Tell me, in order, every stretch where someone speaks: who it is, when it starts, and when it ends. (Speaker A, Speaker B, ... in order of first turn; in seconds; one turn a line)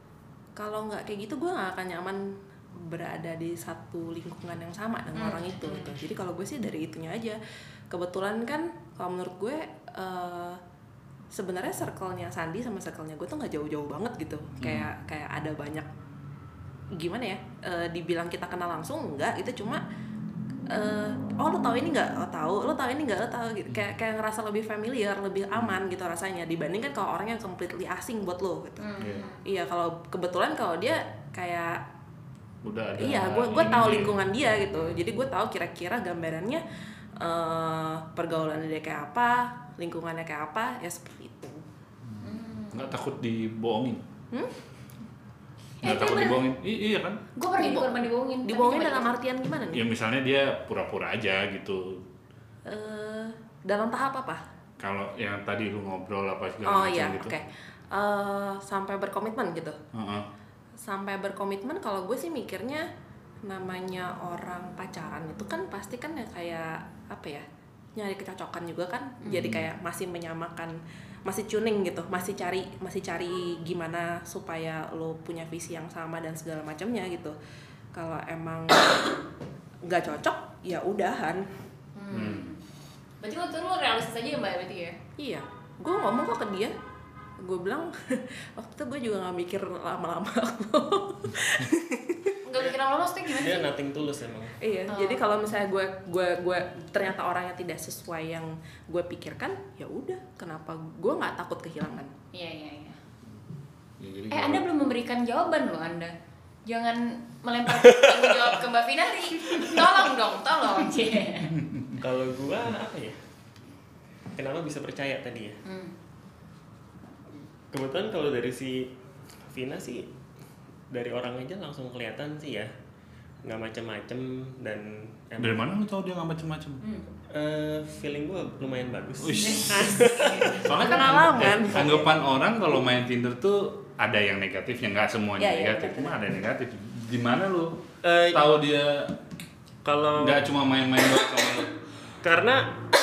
Speaker A: 0.6-7.4
Speaker B: 5.1-5.9
Speaker A: 7.9-10.6
Speaker A: 11.3-15.9
Speaker C: 14.6-14.9
Speaker A: 16.9-19.8
Speaker A: 20.7-31.8
Speaker B: 28.8-29.4
Speaker C: 32.6-34.2
Speaker A: 33.0-36.6
Speaker A: 37.2-41.6
Speaker C: 42.1-44.0
Speaker B: 42.2-42.9
Speaker B: 45.8-46.4
Speaker C: 45.8-47.2
Speaker B: 47.4-49.1
Speaker A: 47.5-49.8
Speaker C: 49.7-52.0
Speaker A: 52.6-54.4
Speaker C: 54.8-57.3
Speaker A: 56.6-59.8
Speaker C: 59.9-60.2
Speaker A: 60.8-62.9
Speaker A: 63.4-67.4
Speaker A: 68.0-77.3
Speaker C: 69.3-69.7
Speaker A: 77.9-79.2
Speaker A: 79.8-81.5
Speaker B: 82.0-82.6
Speaker C: 82.1-82.5
Speaker B: 83.2-85.0
Speaker A: 85.2-86.7
Speaker A: 87.4-92.4
Speaker B: 92.4-93.7
Speaker D: 92.5-94.6
Speaker A: 94.6-102.1
Speaker B: 94.9-95.2
Speaker B: 102.3-103.0
Speaker C: 104.0-104.7
Speaker B: 104.3-106.1
Speaker B: 106.7-111.6
Speaker D: 107.8-108.2
Speaker D: 112.0-113.2
Speaker D: 114.3-115.6
Speaker B: 115.6-115.9
Speaker D: 117.7-118.9
Speaker D: 119.5-120.1
Speaker D: 120.9-122.7
Speaker D: 123.4-125.7
Speaker C: 125.4-126.8
Speaker B: 126.8-127.0
Speaker D: 127.3-130.6
Speaker C: 129.2-137.8
Speaker B: 129.4-130.8
Speaker A: 130.7-132.1
Speaker A: 135.4-136.3
Speaker D: 138.0-138.5
Speaker C: 138.3-139.1
Speaker D: 139.8-140.5
Speaker C: 140.2-141.7
Speaker D: 142.2-142.7